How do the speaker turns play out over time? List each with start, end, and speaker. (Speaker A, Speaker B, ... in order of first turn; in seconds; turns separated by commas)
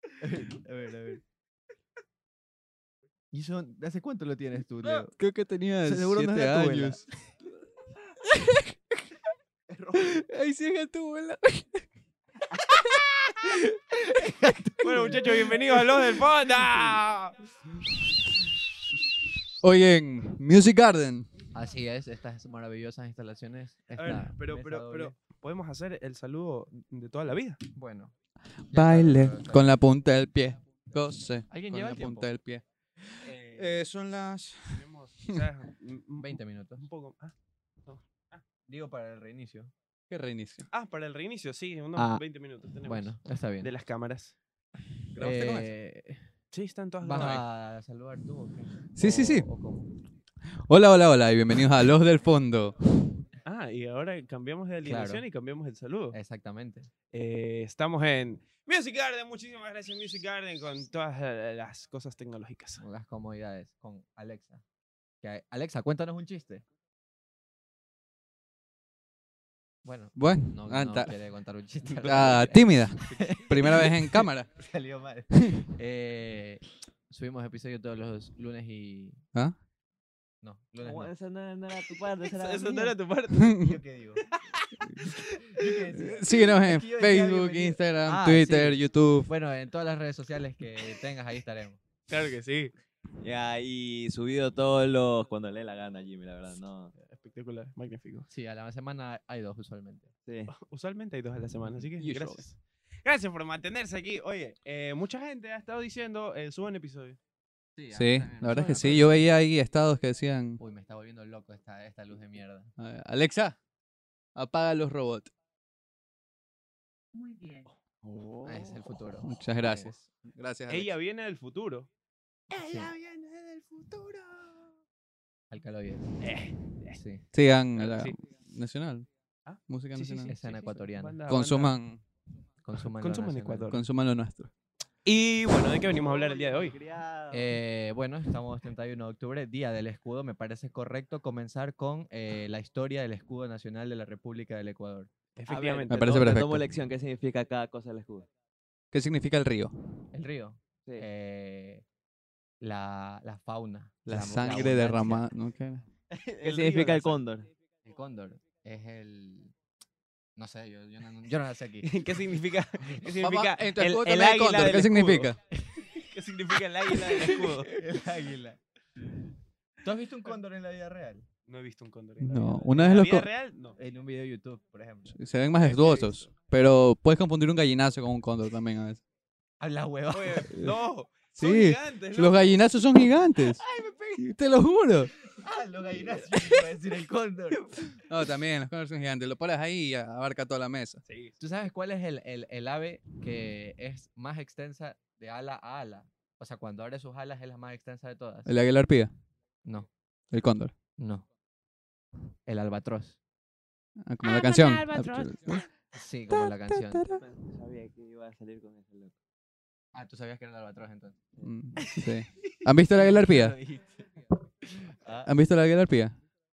Speaker A: 0.2-1.2, Speaker A: 3.3-5.1, Speaker B: 4.8-7.0, Speaker A: 5.8-7.0, Speaker B: 8.2-8.7, Speaker C: 9.7-10.2, Speaker B: 10.0-11.8, Speaker B: 12.7-13.7, Speaker A: 13.9-15.8, Speaker C: 14.8-17.4, Speaker B: 19.6-21.3, Speaker A: 21.5-25.1, Speaker C: 23.9-27.6, Speaker A: 27.7-28.1, Speaker B: 28.7-35.3, Speaker A: 28.7-29.7, Speaker A: 31.5-32.3, Speaker D: 33.3-33.7, Speaker C: 34.7-37.3, Speaker A: 36.2-36.8, Speaker C: 37.9-38.4, Speaker A: 38.7-39.7, Speaker B: 40.1-40.7, Speaker C: 40.7-44.4, Speaker A: 42.0-42.2, Speaker A: 42.8-43.7, Speaker B: 45.1-45.7, Speaker A: 45.2-46.2, Speaker C: 46.5-47.4, Speaker A: 47.0-49.9, Speaker B: 48.9-49.5, Speaker B: 50.6-52.9, Speaker C: 53.4-56.2, Speaker A: 54.8-55.2, Speaker A: 56.1-56.9, Speaker C: 57.1-62.8, Speaker A: 62.8-64.6, Speaker A: 65.2-66.6, Speaker A: 69.8-79.2, Speaker B: 70.2-71.1, Speaker C: 71.8-72.2, Speaker B: 72.0-74.5, Speaker C: 73.1-73.4, Speaker B: 75.3-75.7, Speaker A: 80.4-81.1, Speaker D: 80.8-83.0, Speaker C: 82.2-83.6, Speaker B: 83.3-83.8, Speaker A: 83.6-84.2, Speaker C: 84.2-85.6, Speaker B: 84.9-85.2, Speaker A: 85.4-91.8, Speaker B: 85.9-89.3, Speaker C: 92.1-92.7, Speaker D: 93.2-96.9, Speaker C: 97.0-98.3, Speaker A: 98.3-100.1, Speaker D: 100.2-100.5, Speaker C: 100.5-107.2, Speaker B: 102.0-102.4, Speaker A: 107.8-109.2, Speaker B: 107.9-110.6, Speaker C: 108.5-109.0, Speaker A: 110.6-112.7, Speaker B: 112.8-113.6, Speaker B: 114.3-115.3, Speaker E: 117.1-117.7, Speaker A: 118.4-120.1, Speaker B: 119.1-120.9, Speaker C: 120.7-121.9, Speaker C: 122.5-124.7, Speaker A: 122.5-122.9, Speaker A: 125.5-126.1, Speaker C: 126.2-127.0, Speaker A: 126.9-127.2, Speaker B: 127.3-129.1, Speaker C: 127.8-128.2, Speaker C: 129.4-131.8, Speaker B: 129.7-130.3, Speaker A: 130.3-131.2, Speaker B: 131.3-132.0, Speaker A: 132.6-133.8, Speaker C: 133.0-133.8, Speaker B: 133.7-134.5, Speaker C: 135.0-136.8, Speaker D: 135.9-137.6, Speaker A: 137.3-145.1, Speaker C: 145.4-146.0, Speaker D: 145.5-148.3, Speaker B: 145.9-146.7, Speaker B: 148.9-150.0, Speaker A: 150.1-151.8, Speaker A: 152.6-155.3, Speaker B: 154.1-155.8, Speaker D: 156.1-157.5, Speaker C: 156.4-157.2, Speaker A: 157.8-159.5, Speaker A: 160.3-161.9, Speaker C: 161.8-165.3, Speaker B: 163.1-165.4, Speaker A: 165.6-166.0, Speaker C: 165.9-167.7, Speaker A: 167.0-168.6, Speaker A: 169.8-171.2, Speaker C: 171.4-173.8, Speaker B: 172.2-173.3, Speaker A: 173.8-175.2, Speaker B: 175.1-179.0, Speaker C: 175.6-176.3, Speaker A: 179.6-180.5, Speaker C: 180.1-182.6, Speaker B: 181.4-183.6, Speaker C: 183.4-184.2, Speaker B: 184.2-185.1, Speaker A: 185.3-187.9, Speaker B: 188.1-191.0, Speaker C: 191.0-191.3, Speaker A: 191.4-198.5, Speaker B: 198.5-199.1, Speaker A: 199.6-199.9, Speaker B: 200.3-200.7, Speaker A: 201.0-201.2, Speaker A: 202.4-203.2, Speaker B: 204.1-205.7, Speaker E: 204.2-205.6, Speaker A: 205.9-207.1, Speaker B: 206.4-207.2, Speaker D: 207.1-209.1, Speaker A: 209.9-211.5, Speaker B: 211.4-213.6, Speaker A: 212.9-214.1, Speaker A: 214.6-215.3, Speaker B: 215.2-216.1